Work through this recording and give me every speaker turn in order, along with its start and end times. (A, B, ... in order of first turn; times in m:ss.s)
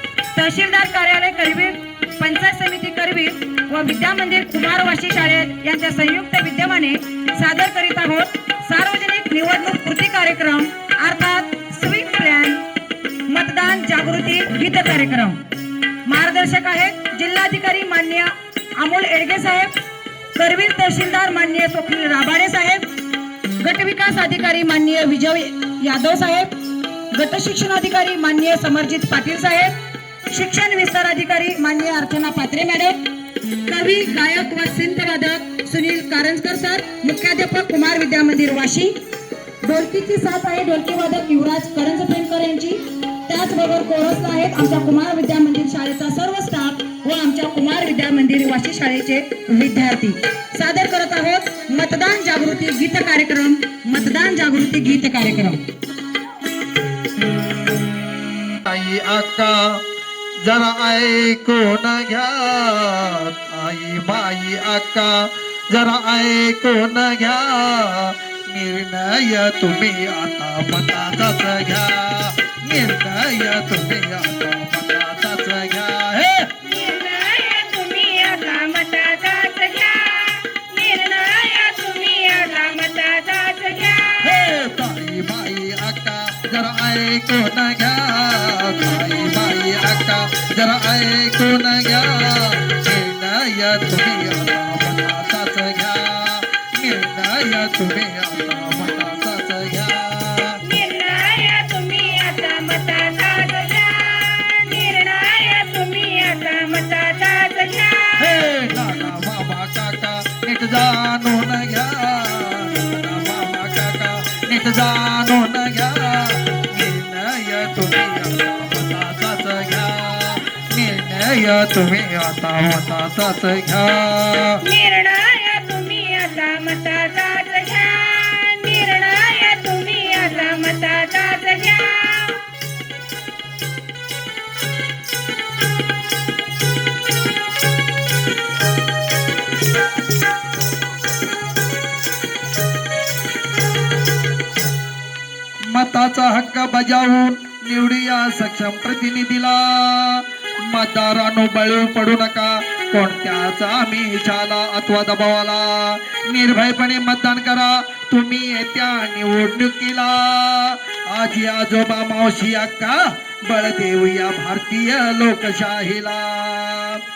0:00.4-0:12.6 A
0:13.3-0:15.4 A
0:16.0-0:19.7 A
0:20.4-0:22.9 A
0:23.6-0:26.5 A
0:27.1-0:29.7 A
0:30.3-0:33.0 A
0:33.6-0:38.9 A
0:39.6-0:55.6 A
0:57.8-0:59.8 B
1:00.4-1:16.5 B
1:16.6-1:24.4 C
1:24.2-1:40.6 B
1:40.6-1:48.3 C
1:48.2-2:04.6 B
2:04.6-2:12.4 C
2:25.7-2:47.0 B